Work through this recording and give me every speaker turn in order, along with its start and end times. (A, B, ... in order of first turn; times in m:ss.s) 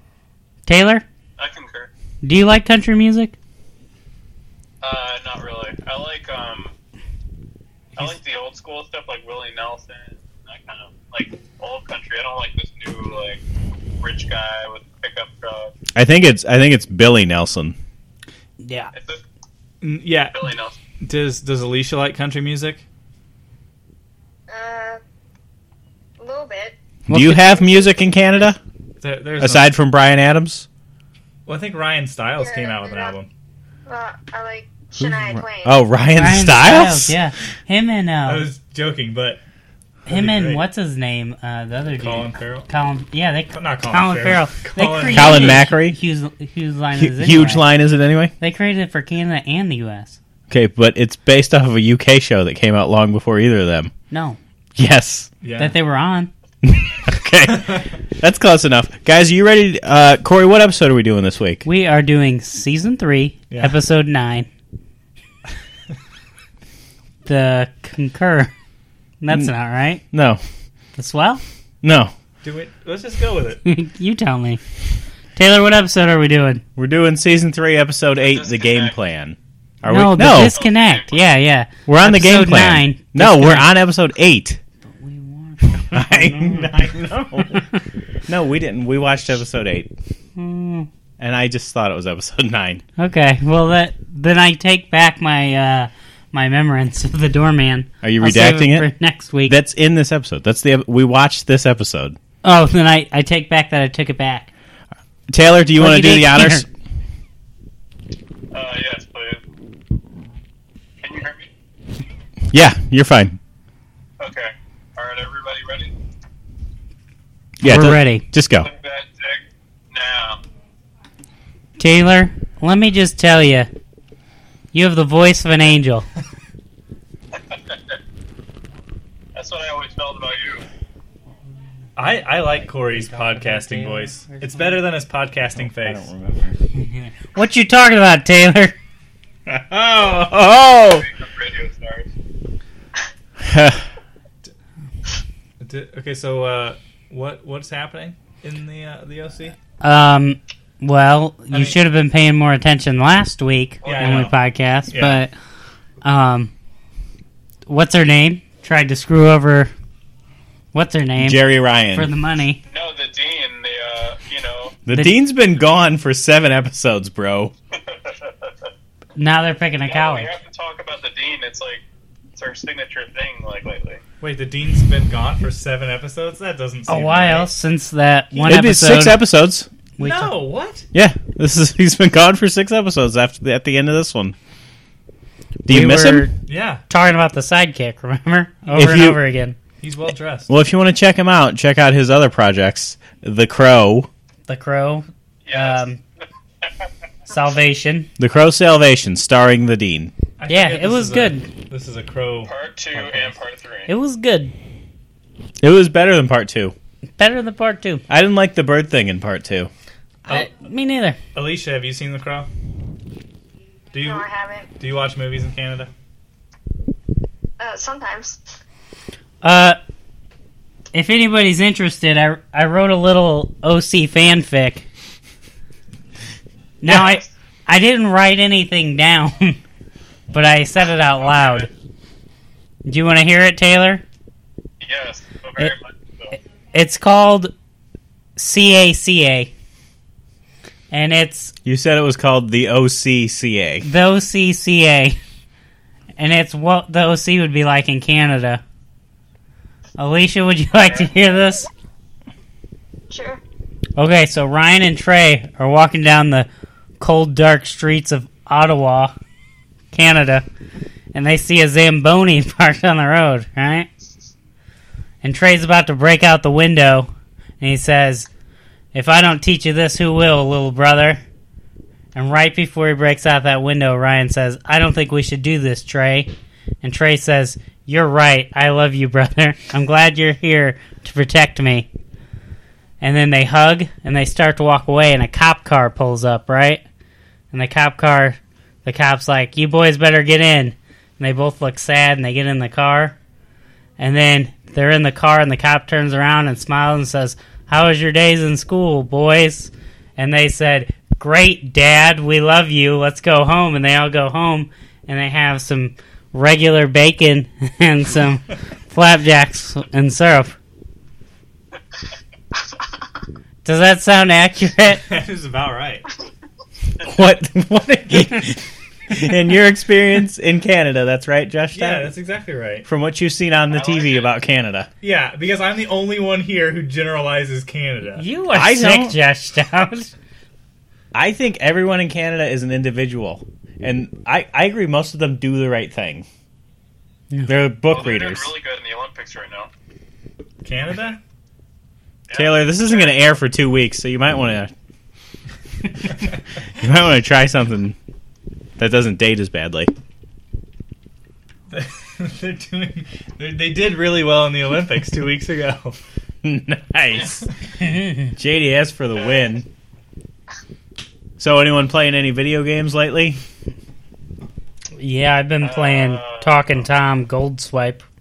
0:00.7-0:01.0 A
0:01.4-0:01.9 B
0:02.2-0:03.4 A
0:04.8-0:06.7 B
0:08.0-0:13.4 B
0:14.0-0:15.7 B
0:16.0-0:17.8 C
0:18.6-0:18.9 A
0:18.9-0:19.2 B
0:19.8-0:20.5 D
0:20.3-0:20.8 B
0:21.0-0:22.8 D
0:24.5-0:25.0 E
0:26.2-0:26.8 E
0:27.1-0:28.6 C
0:27.1-0:27.9 A
0:29.0-0:29.7 D
0:29.4-0:30.7 C
0:31.5-0:33.3 D
0:32.4-0:33.2 E
0:33.9-0:35.8 E
0:35.0-0:37.1 C
0:36.2-0:38.5 A
0:38.3-0:39.4 D
0:40.0-0:40.6 D
0:40.1-0:47.7 A
0:41.9-0:42.7 D
0:43.5-0:45.6 D
0:45.1-0:46.0 C
0:47.0-0:48.3 C
0:48.4-0:50.2 A
0:50.5-0:53.9 C
0:54.1-0:54.4 A
0:54.8-0:55.3 C
0:55.4-0:55.8 D
0:55.6-0:56.3 A
0:56.6-1:01.7 C
1:01.6-1:04.5 A
1:03.5-1:03.8 D
1:07.2-1:08.5 A
1:09.2-1:10.0 A
1:10.1-1:10.4 C
1:11.0-1:11.4 A
1:11.8-1:12.1 C
1:12.4-1:13.6 D
1:13.6-1:14.6 A
1:15.4-1:16.6 A
1:16.8-1:20.5 C
1:18.2-1:19.0 B
1:19.8-1:23.7 A
1:20.5-1:21.2 B
1:21.9-1:24.6 C
1:24.9-1:27.8 A
1:25.9-1:27.7 C
1:28.3-1:29.9 C
1:30.4-1:30.9 A
1:31.2-1:32.8 C
1:33.0-1:39.6 A
1:38.0-1:38.9 C
1:39.5-1:42.2 C
1:42.4-1:44.5 A
1:45.3-1:46.7 C
1:45.8-1:46.6 A
1:48.5-1:49.4 B
1:51.0-1:51.5 B
1:52.5-1:53.4 C
1:54.2-1:55.9 B
1:57.6-1:58.7 C
1:57.6-1:58.2 A
1:58.6-2:00.4 B
2:01.8-2:03.7 A
2:04.7-2:06.1 A
2:09.4-2:10.6 B
2:12.0-2:16.1 D
2:12.6-2:14.8 A
2:15.6-2:16.6 C
2:16.8-2:18.8 A
2:19.5-2:21.1 C
2:20.8-2:22.1 B
2:23.4-2:23.9 C
2:25.6-2:29.6 D
2:29.8-2:35.3 A
2:31.5-2:31.8 D
2:33.8-2:34.3 B
2:33.8-2:34.4 D
2:34.9-2:35.2 D
2:36.0-2:36.5 A
2:37.7-2:39.7 A
2:40.7-2:42.6 A
2:41.2-2:42.1 C
2:42.7-2:44.8 B
2:44.9-2:47.5 C
2:47.8-2:48.5 B
2:49.2-2:50.4 A
2:49.9-2:51.8 B
2:52.4-2:54.0 B
2:54.2-2:57.5 D
2:56.9-2:59.2 A
2:58.4-2:59.7 C
3:00.0-3:00.3 A
3:00.0-3:00.9 D
3:00.9-3:04.4 C
3:05.6-3:06.4 A
3:05.7-3:06.3 C
3:06.5-3:06.8 D
3:06.9-3:09.6 A
3:08.7-3:09.2 C
3:09.8-3:10.5 D
3:10.5-3:14.1 C
3:14.5-3:16.0 A
3:15.5-3:15.9 B
3:17.3-3:18.1 A
3:18.2-3:20.1 C
3:20.4-3:23.4 D
3:20.5-3:21.5 A
3:22.5-3:23.9 B
3:23.9-3:24.5 A
3:25.6-3:26.8 C
3:27.2-3:28.0 A
3:28.1-3:29.7 C
3:30.3-3:31.2 A
3:31.4-3:32.5 D
3:33.9-3:34.3 D
3:34.0-3:34.7 E
3:34.8-3:35.9 D
3:37.6-3:38.4 E
3:39.4-3:39.8 A
3:40.9-3:44.9 A
3:46.8-3:49.6 A
3:46.9-3:47.3 B
3:50.3-3:51.7 A
3:51.2-3:51.7 B
3:52.8-3:54.0 A
3:54.8-3:56.3 B
3:56.3-3:57.5 A
3:58.4-3:59.5 A
4:00.9-4:01.5 A
4:01.6-4:03.9 C
4:03.8-4:05.2 A
4:06.2-4:08.6 A
4:10.0-4:11.7 A
4:13.1-4:13.4 E
4:14.0-4:16.5 A
4:17.0-4:19.1 A
4:19.9-4:20.4 A
4:21.1-4:23.9 A
4:25.2-4:28.3 A
4:28.9-4:31.2 A
4:32.2-4:36.3 A
4:36.8-4:41.9 A
4:43.0-4:46.8 A
4:47.5-4:53.2 A
4:54.0-5:10.6 A
5:13.6-5:15.0 A
5:15.0-5:16.1 D
5:17.0-5:22.1 C
5:21.7-5:22.9 D
5:22.9-5:24.9 C
5:23.7-5:24.3 B
5:25.0-5:28.3 D
5:28.2-5:30.1 A
5:28.6-5:29.2 C
5:31.1-5:36.3 C
5:37.5-5:38.5 C
5:37.9-5:39.7 B
5:40.6-5:41.2 D
5:42.3-5:43.2 B
5:42.3-5:44.7 C
5:46.8-5:48.0 C
5:48.8-5:49.9 C
5:51.7-5:56.0 D
5:56.4-5:57.5 C
5:57.8-5:58.3 A
5:58.4-5:59.7 C
5:59.2-5:59.5 B
6:01.4-6:03.4 C
6:05.0-6:08.0 A
6:05.6-6:06.9 B